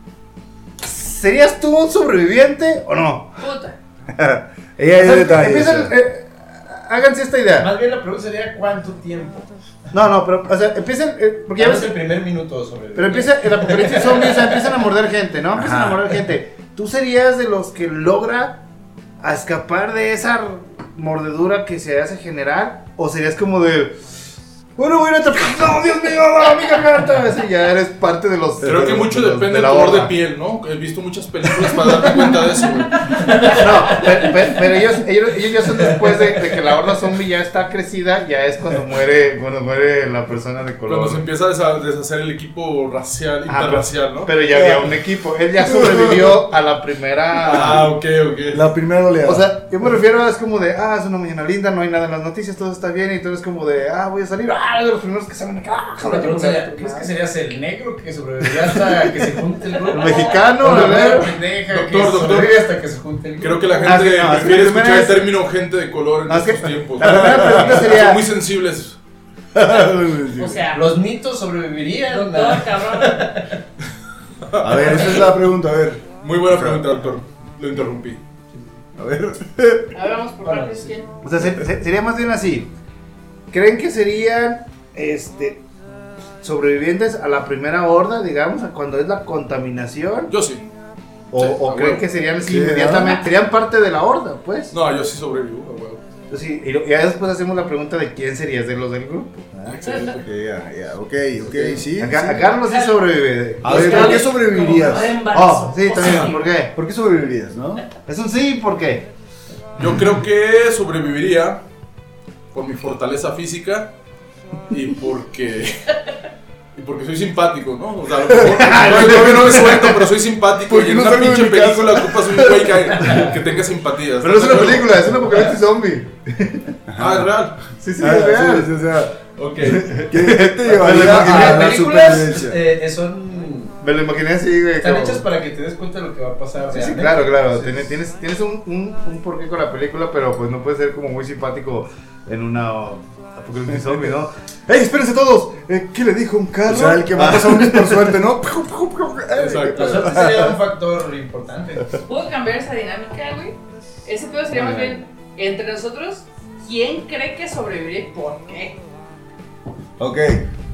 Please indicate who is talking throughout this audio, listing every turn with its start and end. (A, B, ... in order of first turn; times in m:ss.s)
0:00.8-0:03.4 A
0:03.4-0:03.8 B
0:04.1-0:05.9 C
0:05.0-0:07.7 A
0:07.6-0:09.5 D
0:09.9-0:11.9 A
0:11.6-0:14.7 D
0:13.0-0:18.6 A
0:15.5-0:16.1 C
0:19.2-0:24.0 A
0:24.8-0:30.1 A
0:28.6-0:33.2 E
0:31.7-0:32.3 A
0:33.0-0:33.6 B
0:33.4-0:41.2 A
0:40.9-0:44.3 E
0:43.5-0:47.9 A
0:44.5-0:44.9 C
0:45.6-0:46.4 C
0:47.4-0:48.6 E
0:48.5-0:49.5 C
0:49.2-0:57.1 A
0:56.0-1:03.9 D
0:59.9-1:01.4 A
1:01.7-1:02.7 E
1:03.4-1:09.0 E
1:03.8-1:05.3 A
1:06.3-1:08.2 A
1:07.0-1:07.9 C
1:09.5-1:10.6 C
1:10.4-1:10.9 B
1:10.7-1:13.6 D
1:12.1-1:13.4 B
1:14.5-1:15.1 E
1:14.6-1:16.9 C
1:16.2-1:18.2 E
1:19.0-1:20.0 C
1:19.9-1:21.2 B
1:20.4-1:20.9 D
1:21.2-1:22.7 A
1:23.5-1:25.6 A
1:26.4-1:30.3 A
1:30.3-1:30.7 E
1:31.3-1:34.7 A
1:31.4-1:32.0 E
1:32.4-1:33.2 C
1:34.7-1:36.0 E
1:36.3-1:40.0 A
1:39.7-1:40.2 E
1:39.9-1:42.6 C
1:41.5-1:44.3 A
1:42.6-1:43.0 B
1:43.6-1:45.2 C
1:43.7-1:46.5 B
1:45.3-1:46.7 A
1:46.0-1:47.9 C
1:48.1-1:49.1 A
1:49.8-1:51.6 E
1:52.5-1:53.9 E
1:54.7-1:55.9 E
1:56.7-2:05.0 E
1:58.5-2:00.0 A
1:58.9-1:59.3 C
2:00.6-2:03.2 C
2:04.2-2:06.8 A
2:04.9-2:05.5 C
2:06.9-2:07.3 C
2:07.0-2:07.6 E
2:07.8-2:08.7 A
2:08.0-2:12.6 C
2:09.4-2:10.0 E
2:10.1-2:11.8 A
2:10.8-2:13.8 D
2:13.8-2:15.2 A
2:14.8-2:17.9 D
2:16.7-2:28.2 A
2:26.6-2:30.6 C
2:29.4-2:30.0 E
2:29.7-2:32.0 D
2:32.0-2:38.8 B
2:40.0-2:40.5 C